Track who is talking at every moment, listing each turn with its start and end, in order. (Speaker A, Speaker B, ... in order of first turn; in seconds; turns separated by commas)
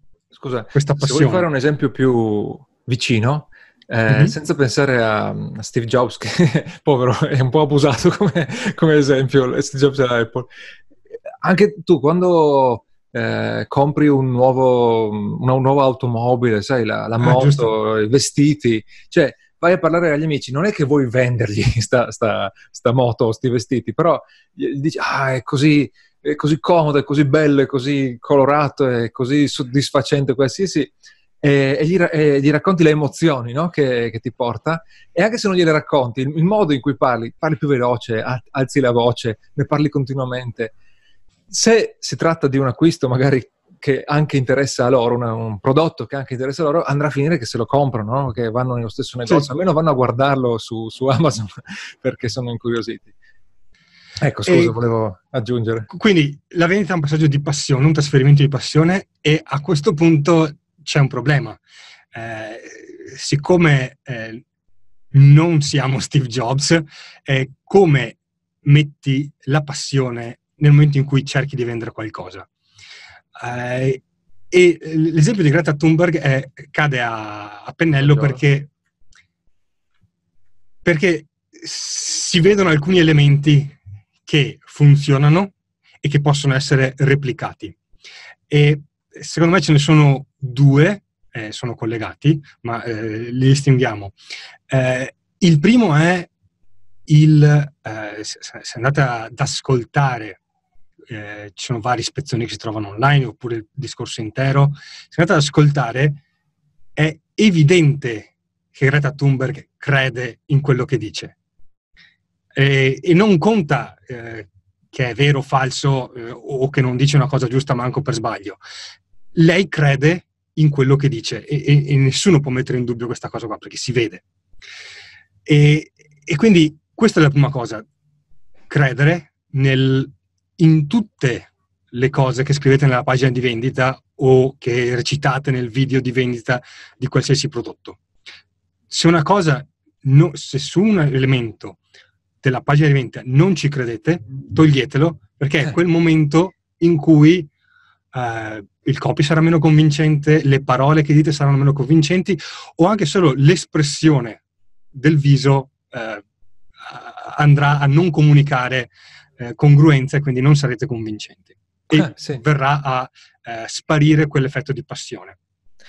Speaker A: 0.3-10.5, Speaker B: 0.8-1.5, Speaker B: 4.1-4.3, Speaker A: 11.4-40.7, Speaker B: 17.2-17.7, Speaker A: 41.5-53.1, Speaker A: 54.2-55.9, Speaker B: 54.5-54.8, Speaker B: 55.9-61.6, Speaker B: 62.1-64.4, Speaker B: 65.1-72.5, Speaker B: 73.4-78.7, Speaker A: 78.0-78.4, Speaker B: 80.8-87.8, Speaker B: 88.5-94.1, Speaker B: 94.7-96.3, Speaker B: 97.1-100.4, Speaker B: 101.1-106.2, Speaker B: 107.0-111.3, Speaker B: 112.5-118.6, Speaker B: 119.3-124.2, Speaker B: 125.5-127.8, Speaker B: 128.7-138.0, Speaker B: 138.9-141.8, Speaker B: 142.4-147.5, Speaker B: 148.1-154.4, Speaker B: 154.9-156.2, Speaker B: 156.9-165.4, Speaker A: 161.9-162.4